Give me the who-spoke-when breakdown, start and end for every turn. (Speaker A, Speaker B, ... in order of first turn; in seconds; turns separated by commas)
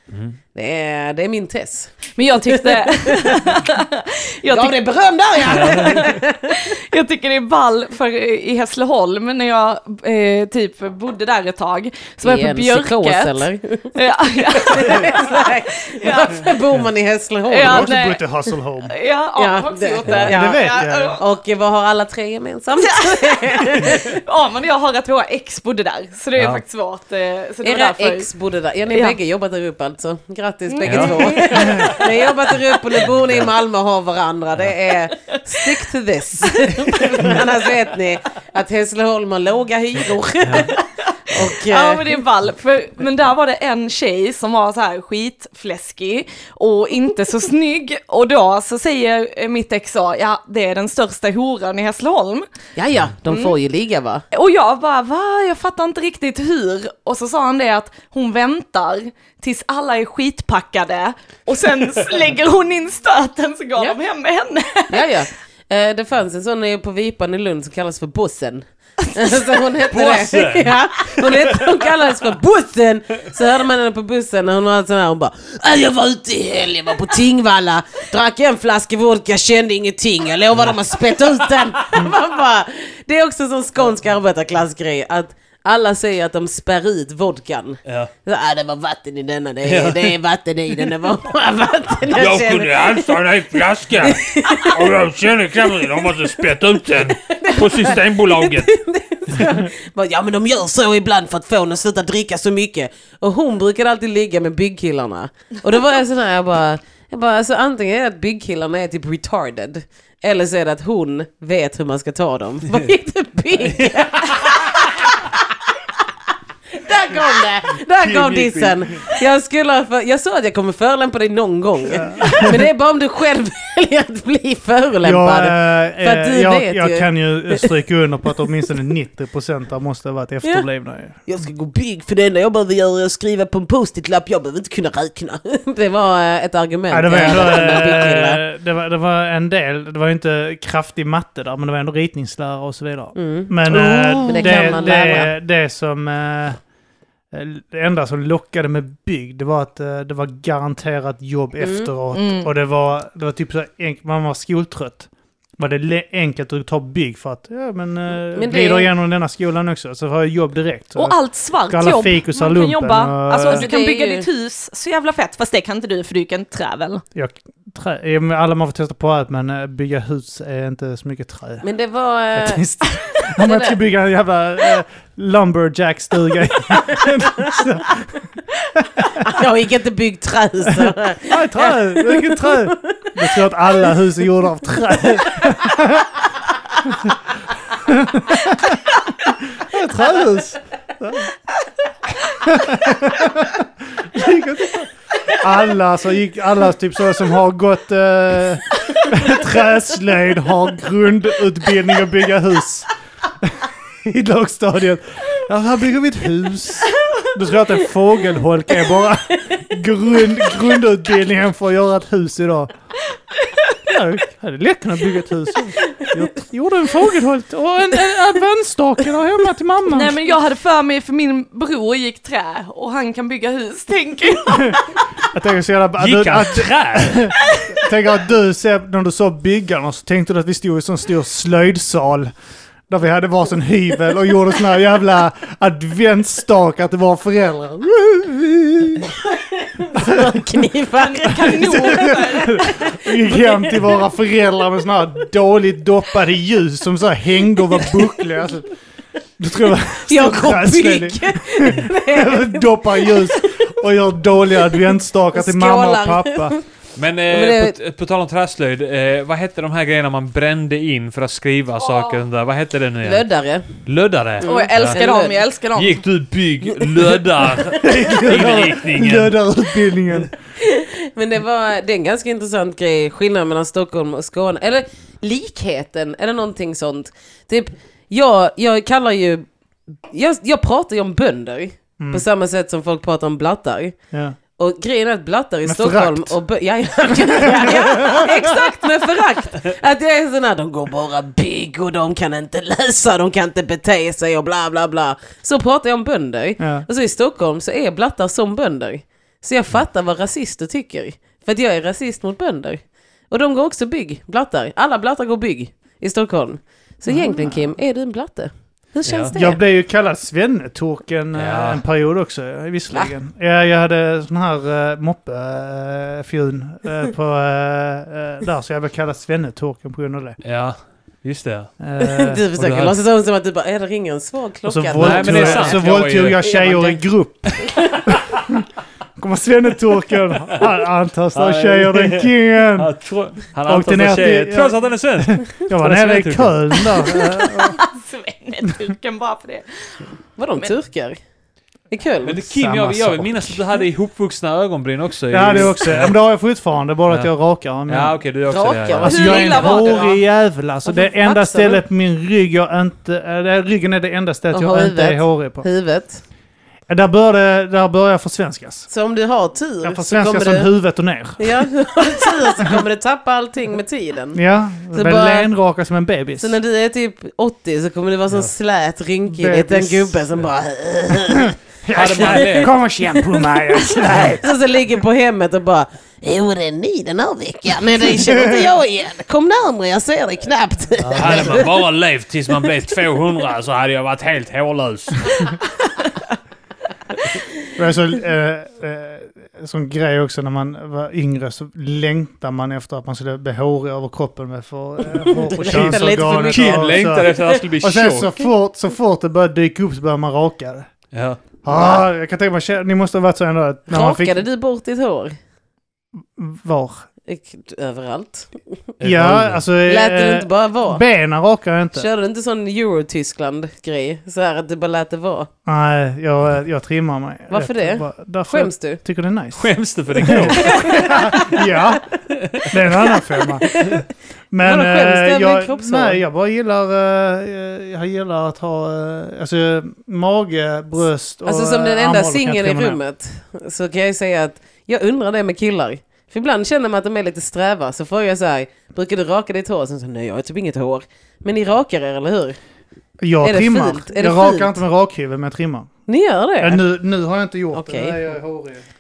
Speaker A: 0.1-0.4, Speaker B: 0.5-3.6, Speaker C: 2.2-4.8, Speaker B: 4.5-6.6, Speaker C: 5.4-16.5, Speaker A: 5.5-5.9, Speaker B: 12.2-17.9, Speaker C: 17.5-18.4, Speaker D: 17.6-18.9, Speaker C: 18.9-21.2, Speaker B: 19.4-24.2, Speaker D: 20.1-21.2, Speaker C: 22.8-28.3, Speaker A: 26.4-26.6, Speaker B: 27.6-42.1, Speaker C: 30.7-32.6, Speaker A: 30.9-31.4, Speaker D: 31.6-31.9, Speaker C: 36.7-37.3, Speaker C: 41.3-52.5, Speaker B: 52.8-54.2, Speaker C: 54.3-65.1, Speaker B: 64.9-95.0, Speaker A: 69.9-71.6, Speaker A: 87.9-88.1, Speaker A: 89.7-90.2, Speaker E: 92.1-98.7, Speaker B: 95.8-115.4, Speaker B: 116.7-127.7, Speaker A: 118.0-118.8, Speaker D: 121.9-122.7, Speaker D: 125.0-131.2, Speaker B: 131.3-138.4, Speaker D: 136.9-146.6, Speaker B: 143.2-145.3, Speaker C: 144.3-144.9, Speaker D: 147.3-163.7, Speaker B: 151.6-151.9, Speaker C: 152.1-152.5, Speaker B: 158.3-158.9, Speaker C: 161.0-167.0, Speaker B: 163.4-164.3, Speaker D: 167.1-171.7, Speaker B: 171.6-172.7, Speaker D: 172.3-178.2, Speaker B: 173.4-173.8, Speaker B: 176.7-177.6, Speaker D: 178.8-179.3, Speaker B: 179.2-183.2, Speaker D: 181.3-186.1, Speaker D: 186.8-187.2, Speaker D: 187.8-191.3, Speaker D: 192.4-202.9, Speaker D: 203.4-212.7, Speaker D: 213.9-220.2, Speaker C: 219.9-225.0, Speaker D: 224.5-232.3, Speaker A: 226.0-227.3, Speaker D: 232.9-239.1, Speaker B: 239.5-244.0, Speaker D: 239.9-240.5, Speaker C: 241.0-242.7, Speaker D: 241.4-248.7, Speaker D: 249.4-256.6, Speaker B: 250.1-253.7, Speaker B: 255.3-256.6, Speaker A: 257.0-265.0, Speaker B: 257.3-257.8, Speaker C: 261.8-262.2, Speaker B: 263.0-263.7, Speaker B: 264.4-265.4, Speaker C: 264.4-266.0, Speaker A: 265.7-269.3, Speaker B: 266.8-267.7, Speaker D: 267.8-270.3, Speaker B: 270.6-279.5, Speaker B: 280.1-284.0, Speaker D: 282.0-282.2, Speaker B: 284.6-309.6, Speaker D: 285.7-286.4, Speaker D: 287.4-288.5, Speaker D: 296.6-296.9, Speaker D: 307.1-307.7, Speaker A: 309.1-309.3, Speaker D: 309.3-320.4, Speaker A: 311.4-311.8, Speaker A: 320.4-321.7, Speaker D: 321.8-322.4, Speaker B: 322.0-326.7, Speaker A: 322.6-322.9, Speaker D: 324.7-328.6, Speaker A: 325.0-327.0, Speaker D: 329.2-332.9, Speaker A: 331.3-336.9, Speaker D: 333.7-337.8, Speaker C: 337.0-340.1, Speaker B: 340.4-341.2, Speaker B: 341.9-342.4, Speaker A: 342.2-346.2, Speaker D: 342.5-343.6, Speaker D: 345.3-348.2, Speaker A: 347.9-349.4, Speaker B: 348.5-350.2, Speaker D: 348.9-355.6, Speaker C: 349.1-350.1, Speaker B: 350.9-351.8, Speaker B: 354.5-356.2, Speaker D: 356.9-358.9, Speaker B: 358.9-360.7, Speaker D: 359.8-361.4, Speaker B: 361.4-364.4, Speaker D: 364.3-366.6, Speaker B: 364.9-365.5, Speaker B: 366.4-372.7, Speaker D: 369.3-370.2, Speaker D: 371.9-374.5, Speaker A: 371.9-372.7, Speaker B: 374.0-381.7, Speaker D: 378.2-378.6, Speaker A: 381.0-385.5, Speaker D: 387.8-400.9, Speaker B: 395.1-397.4, Speaker A: 395.7-398.3, Speaker A: 401.1-401.4, Speaker D: 401.6-404.4, Speaker B: 401.7-402.0, Speaker B: 403.9-405.4, Speaker D: 406.4-407.1, Speaker B: 407.3-408.7, Speaker A: 409.0-409.6, Speaker D: 409.0-412.1, Speaker B: 409.9-411.0, Speaker B: 411.9-415.5, Speaker D: 415.6-419.7, Speaker B: 417.5-419.0, Speaker A: 419.6-421.1, Speaker D: 420.2-422.1, Speaker B: 420.6-421.6, Speaker A: 422.3-422.8, Speaker D: 422.6-424.0, Speaker B: 423.7-424.0, Speaker D: 424.5-433.0, Speaker B: 424.6-426.2, Speaker B: 431.5-442.6, Speaker D: 443.2-445.9, Speaker B: 443.4-444.8, Speaker B: 446.1-446.8, Speaker D: 446.6-448.8, Speaker B: 447.7-448.2